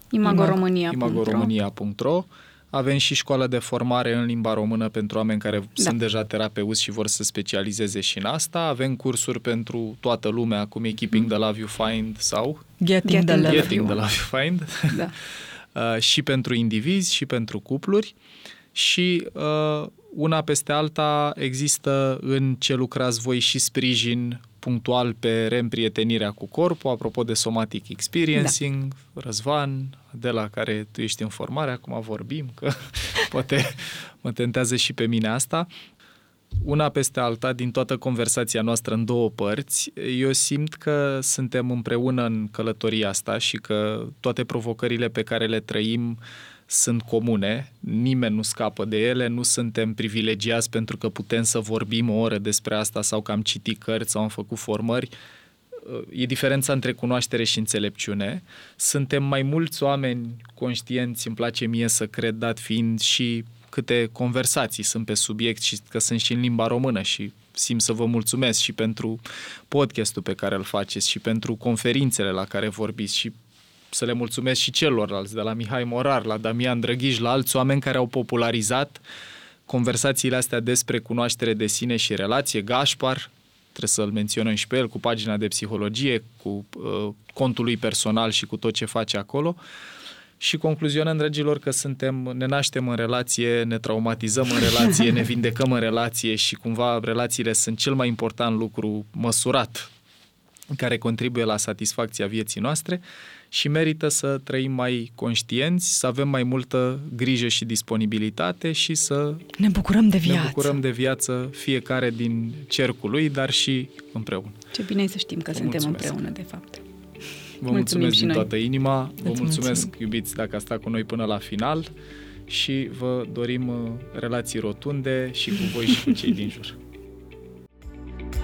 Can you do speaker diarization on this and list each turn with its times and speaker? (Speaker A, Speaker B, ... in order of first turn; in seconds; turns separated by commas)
Speaker A: 0.1-1.5, Speaker B: 0.2-12.6, Speaker C: 12.8-13.9, Speaker A: 13.1-14.0, Speaker B: 13.4-15.0, Speaker B: 15.7-18.1, Speaker B: 18.7-35.7, Speaker B: 36.6-55.1, Speaker B: 55.8-73.3, Speaker B: 73.9-79.0, Speaker B: 79.7-89.6, Speaker B: 90.4-99.9, Speaker B: 100.7-109.5, Speaker C: 109.6-110.8, Speaker B: 110.2-114.6, Speaker A: 114.7-116.8, Speaker B: 115.5-116.2, Speaker B: 117.6-121.9, Speaker A: 117.7-118.5, Speaker C: 119.2-119.9, Speaker B: 122.5-126.8